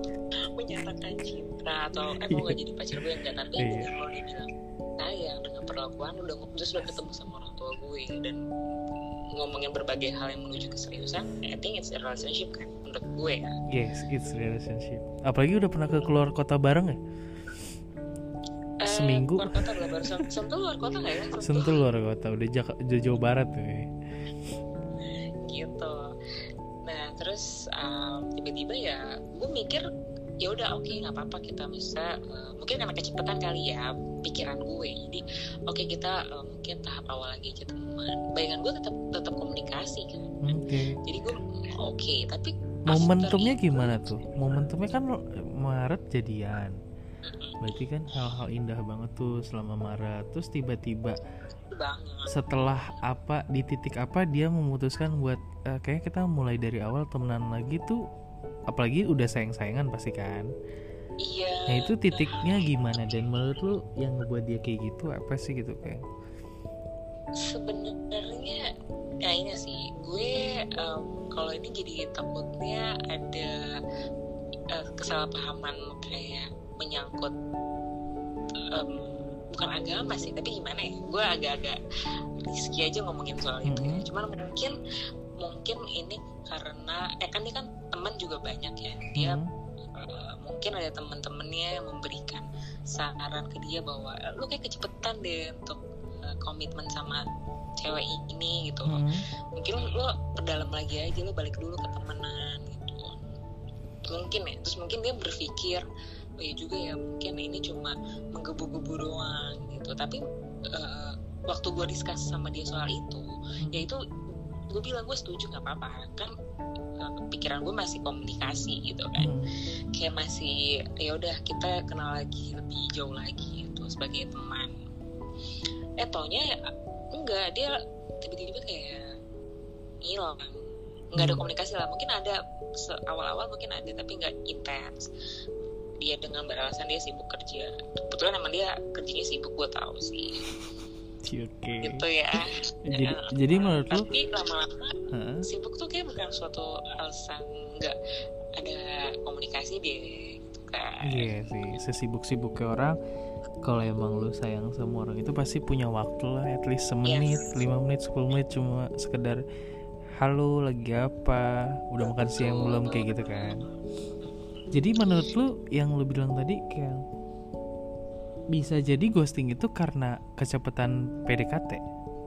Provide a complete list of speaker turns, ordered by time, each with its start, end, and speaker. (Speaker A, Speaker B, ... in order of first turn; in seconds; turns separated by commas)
Speaker A: 0.6-8.4, Speaker B: 2.2-2.6, Speaker B: 3.6-3.9, Speaker A: 9.3-13.5, Speaker B: 13.7-17.0, Speaker A: 18.8-21.8, Speaker B: 18.9-20.3, Speaker B: 21.4-23.9, Speaker A: 25.0-26.0, Speaker A: 26.9-29.8, Speaker A: 30.4-43.9, Speaker B: 40.4-41.0, Speaker B: 42.9-46.7, Speaker A: 47.2-47.7, Speaker B: 47.6-51.2, Speaker A: 51.7-52.3, Speaker B: 52.3-58.0, Speaker B: 58.7-60.5, Speaker A: 61.2-62.6, Speaker B: 61.7-66.0, Speaker A: 67.4-68.6, Speaker A: 69.2-73.5, Speaker A: 74.7-77.3, Speaker A: 78.7-81.8, Speaker A: 82.4-84.7, Speaker B: 83.7-84.0, Speaker A: 85.4-89.4, Speaker B: 89.2-89.5, Speaker A: 89.9-97.2, Speaker A: 97.8-99.0, Speaker B: 98.9-99.2, Speaker A: 99.5-103.2, Speaker A: 104.1-105.8, Speaker A: 106.4-110.2, Speaker A: 110.7-114.0, Speaker A: 114.7-116.3, Speaker A: 117.0-119.3, Speaker B: 119.2-119.5, Speaker A: 120.0-124.7, Speaker A: 126.0-126.5, Speaker A: 127.2-127.7, Speaker A: 128.2-129.0, Speaker A: 130.0-130.5, Speaker A: 131.1-135.1, Speaker B: 131.2-131.4, Speaker A: 136.0-140.3, Speaker B: 141.2-142.0, Speaker A: 141.8-144.9, Speaker B: 142.9-144.1, Speaker B: 145.1-145.4, Speaker A: 145.4-147.9, Speaker A: 148.6-151.2, Speaker B: 151.1-152.9, Speaker B: 153.6-159.4, Speaker A: 157.0-157.5, Speaker B: 160.2-163.6, Speaker A: 162.1-163.6, Speaker A: 164.2-165.2, Speaker B: 164.7-167.0, Speaker B: 168.5-171.8